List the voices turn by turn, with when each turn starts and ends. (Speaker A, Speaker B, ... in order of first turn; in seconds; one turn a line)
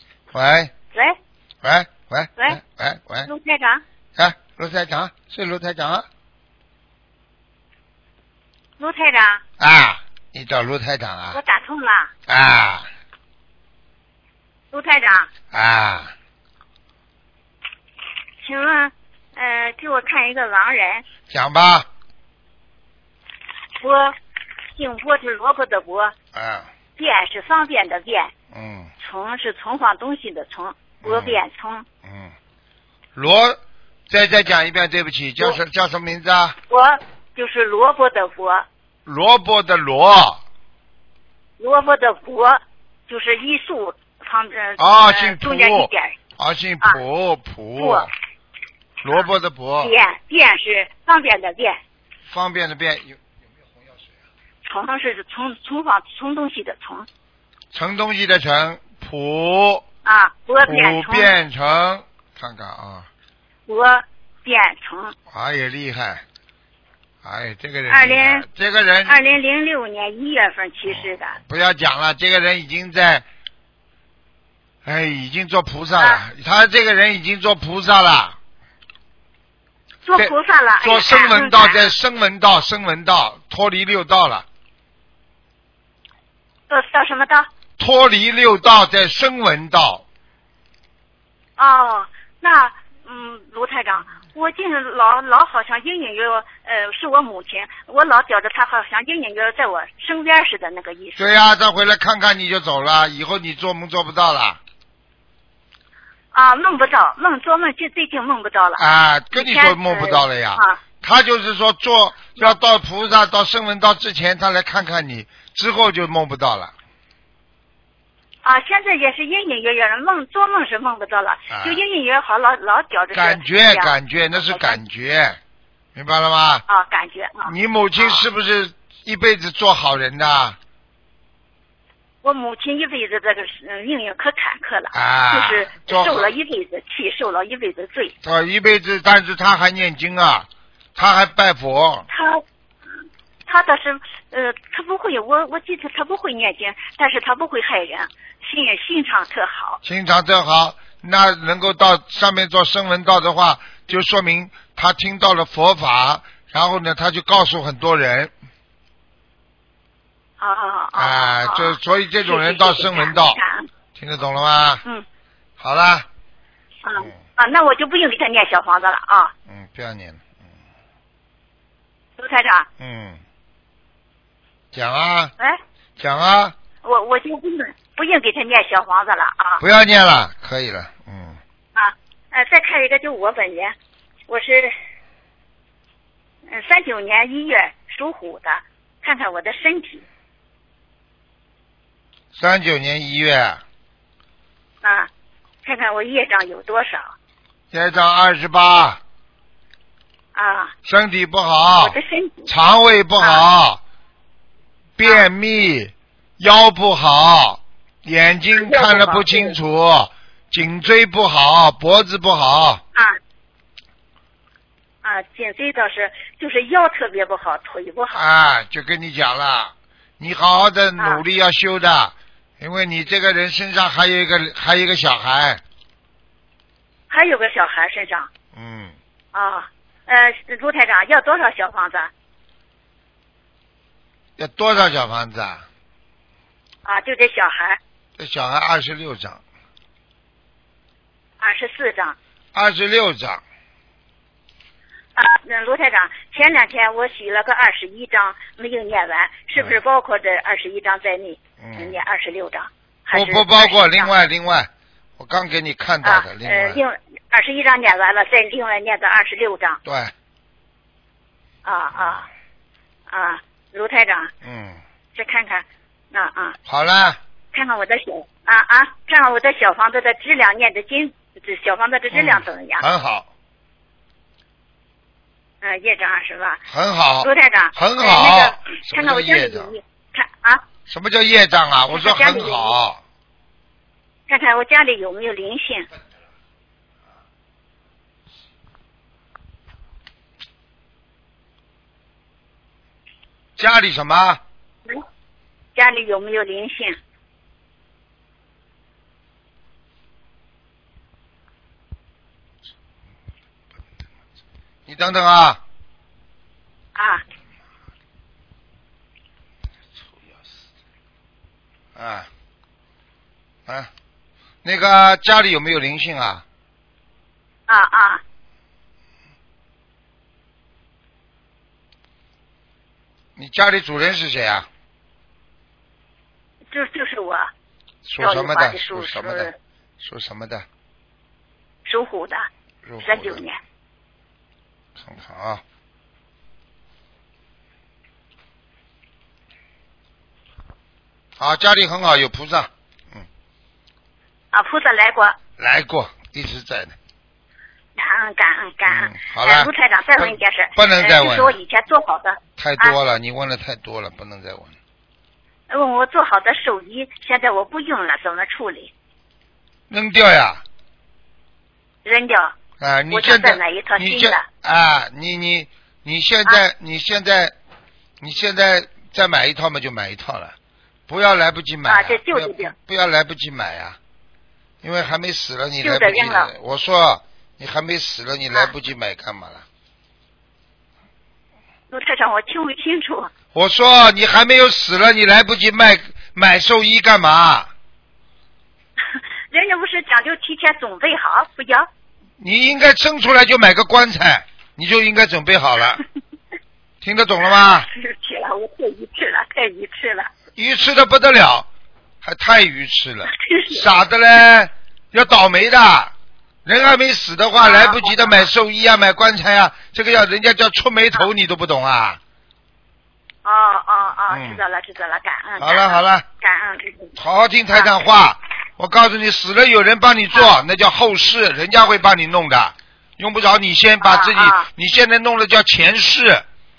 Speaker A: 0.3-0.7
Speaker A: 1.6-3.3
Speaker B: 3.2-3.8
Speaker A: 4.2-6.0
Speaker B: 8.8-9.4
Speaker A: 9.6-11.4
Speaker B: 11.3-12.1
Speaker A: 12.3-12.9
Speaker B: 14.7-15.3
Speaker A: 15.5-16.1
Speaker B: 18.4-21.1
Speaker A: 21.3-21.9
Speaker B: 23.8-24.1
Speaker B: 24.7-26.1
Speaker A: 26.3-26.7
Speaker B: 27.0-28.3
Speaker A: 28.5-28.9
Speaker B: 29.0-31.9
Speaker A: 31.0-31.4
Speaker A: 32.0-32.3
Speaker A: 33.1-36.5
Speaker B: 36.7-38.6
Speaker A: 39.0-40.4
Speaker B: 41.6-46.1
Speaker A: 44.8-48.1
Speaker B: 47.8-48.1
Speaker A: 49.0-49.9
Speaker B: 49.8-51.8
Speaker A: 52.3-54.2
Speaker B: 54.6-57.1
Speaker A: 57.7-59.8
Speaker B: 60.0-61.3
Speaker A: 60.6-63.1
Speaker B: 63.7-65.1
Speaker A: 65.3-66.2
Speaker A: 67.2-69.2
Speaker B: 67.9-68.4
Speaker B: 69.0-71.4
Speaker A: 70.8-73.2
Speaker A: 74.8-78.4
Speaker B: 76.0-76.2
Speaker B: 80.0-81.9
Speaker A: 80.2-84.4
Speaker B: 86.7-87.5
Speaker A: 87.8-90.0
Speaker B: 91.6-101.3
Speaker A: 101.2-104.6
Speaker B: 106.3-108.8
Speaker A: 108.8-116.7
Speaker B: 109.3-110.8
Speaker B: 118.4-123.9
Speaker A: 121.5-121.8
Speaker A: 123.1-125.4
Speaker B: 124.5-124.8
Speaker A: 125.9-126.6
Speaker B: 126.7-128.3
Speaker A: 127.4-130.6
Speaker B: 132.2-138.1
Speaker A: 134.9-136.3
Speaker A: 138.2-142.1
Speaker B: 142.1-142.4
Speaker B: 143.4-149.8
Speaker A: 149.8-158.3
Speaker B: 160.4-163.7
Speaker A: 160.9-163.4
Speaker A: 163.9-164.8
Speaker A: 165.6-166.1
Speaker B: 166.8-169.3
Speaker A: 169.4-170.4
Speaker B: 172.2-172.7
Speaker A: 172.8-173.2
Speaker A: 174.7-175.3
Speaker A: 176.0-176.5
Speaker B: 176.8-179.6
Speaker A: 179.6-181.4
Speaker B: 181.7-183.7
Speaker B: 184.3-184.7
Speaker B: 186.5-190.0
Speaker A: 192.3-193.6
Speaker B: 194.8-195.1
Speaker B: 195.6-197.1
Speaker A: 197.7-199.0
Speaker B: 200.3-200.7
Speaker A: 200.8-203.8
Speaker B: 201.8-202.5
Speaker B: 203.2-203.4
Speaker A: 205.0-212.8
Speaker B: 205.0-205.3
Speaker B: 208.5-209.5
Speaker B: 215.0-218.2
Speaker A: 218.1-225.6
Speaker B: 221.0-221.2
Speaker B: 227.1-228.3
Speaker A: 228.5-228.9
Speaker B: 229.3-232.1
Speaker A: 234.4-235.6
Speaker B: 236.8-237.8
Speaker A: 238.2-239.4
Speaker B: 241.4-242.2
Speaker A: 242.5-243.4
Speaker B: 245.2-254.1
Speaker A: 251.6-252.0
Speaker A: 253.1-256.8
Speaker B: 256.0-259.8
Speaker A: 259.8-260.1
Speaker B: 261.6-262.3
Speaker B: 263.1-264.3
Speaker A: 264.4-264.8
Speaker B: 265.1-266.6
Speaker A: 266.6-267.2
Speaker B: 267.5-272.8
Speaker A: 272.1-273.3
Speaker B: 275.6-276.6
Speaker A: 276.7-279.7
Speaker B: 277.2-280.6
Speaker A: 280.9-283.0
Speaker B: 281.9-282.7
Speaker B: 284.3-285.9
Speaker A: 293.6-294.4
Speaker B: 295.7-296.9
Speaker A: 304.9-305.6
Speaker B: 306.9-307.2
Speaker A: 311.9-312.3
Speaker A: 314.6-316.4
Speaker B: 317.7-318.2
Speaker A: 323.4-324.7
Speaker B: 326.7-327.5
Speaker A: 328.0-330.6
Speaker B: 328.2-329.5
Speaker B: 331.9-332.4
Speaker A: 332.8-333.4
Speaker B: 333.0-333.6
Speaker A: 335.0-335.6
Speaker A: 341.4-343.2
Speaker B: 344.5-345.4
Speaker A: 345.6-346.9
Speaker B: 347.9-352.9
Speaker A: 348.9-351.6
Speaker A: 352.6-354.7
Speaker B: 355.7-358.9
Speaker A: 359.9-360.6
Speaker B: 362.0-362.5
Speaker A: 362.8-367.5
Speaker B: 363.1-364.4
Speaker A: 368.2-370.5
Speaker A: 371.1-374.0
Speaker B: 371.9-372.7
Speaker A: 374.8-379.6
Speaker B: 375.8-376.5
Speaker B: 381.9-383.3
Speaker A: 383.5-387.7
Speaker B: 389.1-391.9
Speaker A: 392.4-396.0
Speaker A: 397.0-397.9
Speaker B: 397.8-400.3
Speaker A: 400.5-401.7
Speaker A: 402.2-406.1
Speaker B: 403.2-403.8
Speaker A: 406.6-412.2
Speaker B: 407.6-408.4
Speaker B: 413.4-417.1
Speaker A: 414.3-414.6
Speaker A: 415.6-416.2
Speaker A: 417.2-426.4
Speaker B: 424.0-424.7